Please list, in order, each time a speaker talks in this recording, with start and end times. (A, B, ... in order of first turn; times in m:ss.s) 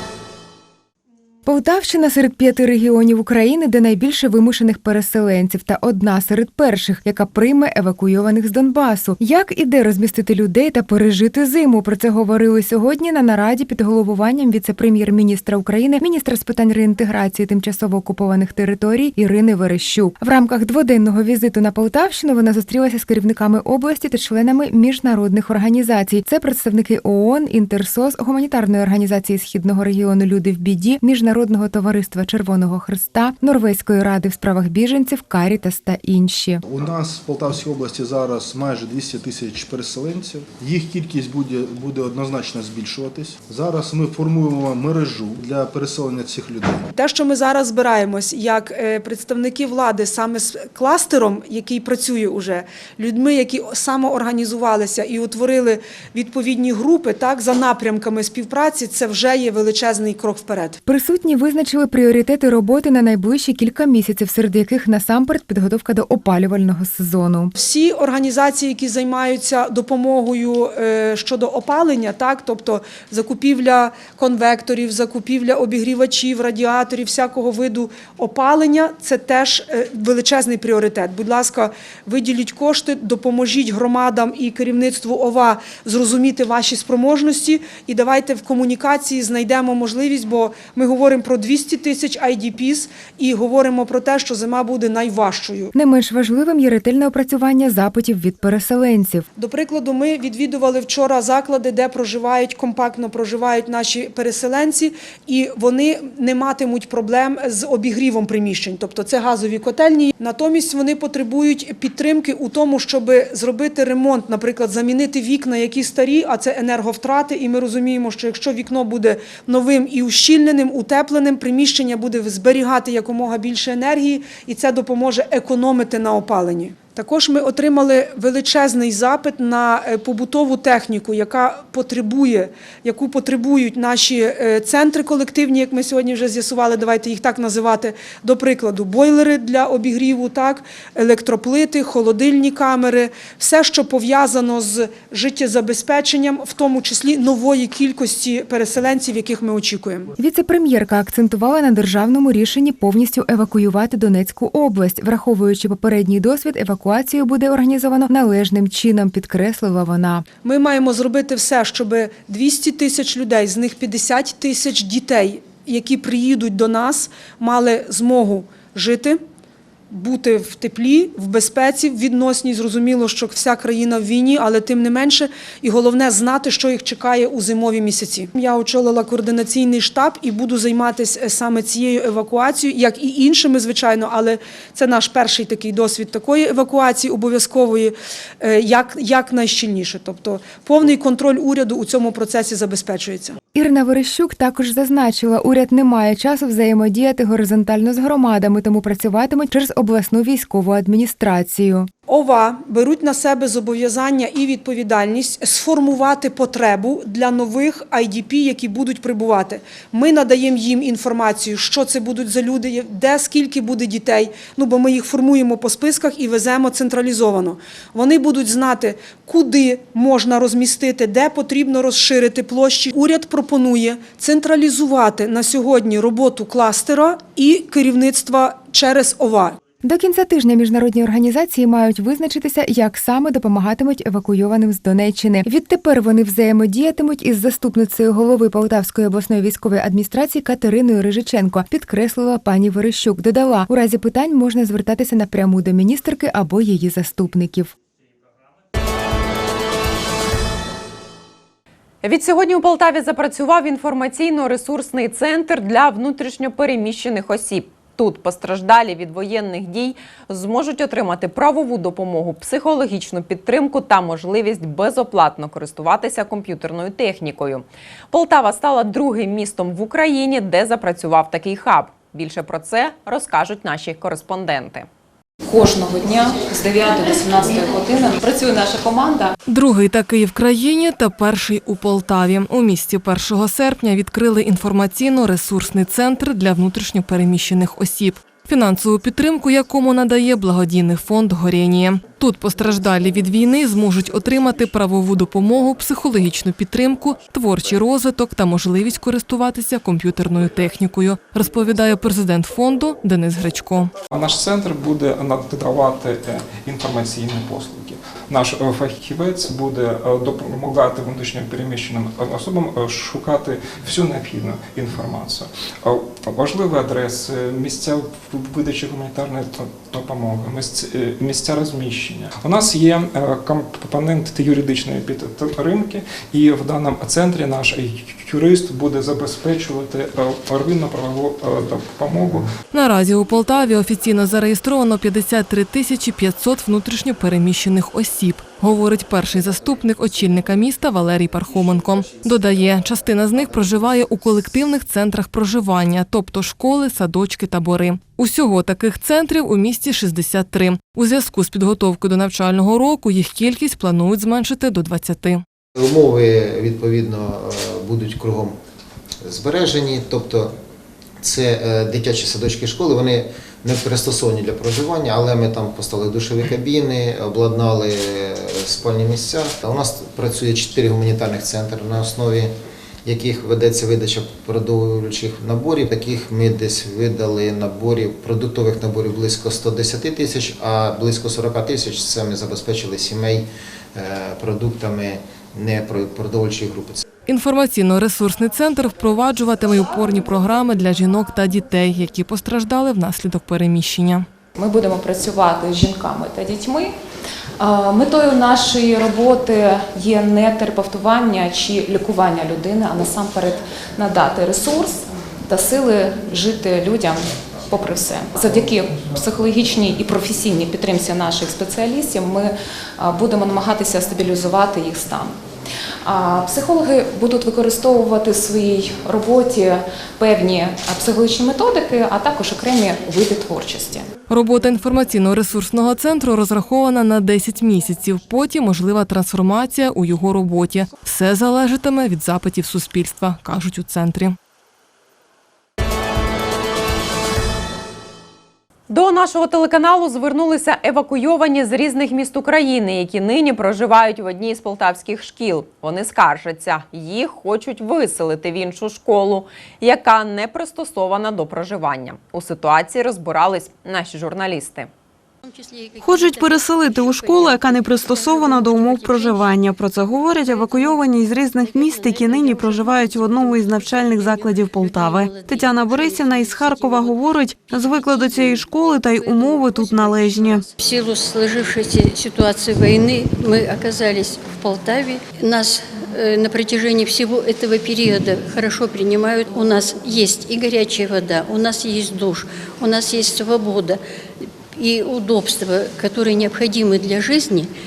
0:01.5-0:36.6 A
0:36.6-0:46.9 B
0:46.9-1:00.8 C
1:00.9-1:07.5 A
1:07.6-1:35.7 C
1:35.7-1:39.3 A
1:39.4-2:30.1 C
2:30.2-2:40.3 A
2:40.4-2:49.2 C
2:49.9-3:13.4 C
3:13.5-3:21.9 A
3:22.1-3:49.6 C
3:49.8-4:07.7 A
4:12.0-4:34.9 D
4:35.5-4:39.4 E
4:39.5-5:03.9 F
5:04.1-5:32.5 G
5:32.7-5:55.4 F
5:55.8-5:58.6 H
5:59.2-6:00.5 H
6:01.2-6:12.5 H
6:13.0-6:27.0 H
6:27.3-6:34.3 F
6:34.6-6:37.0 E
6:37.6-6:55.4 E
6:56.0-7:04.1 E
7:04.3-7:14.4 F
7:18.9-7:34.9 D
7:35.4-7:39.7 I
7:36.0-7:50.7 J
7:40.4-7:41.0 I
7:41.6-8:04.0 I
8:04.7-8:07.7 I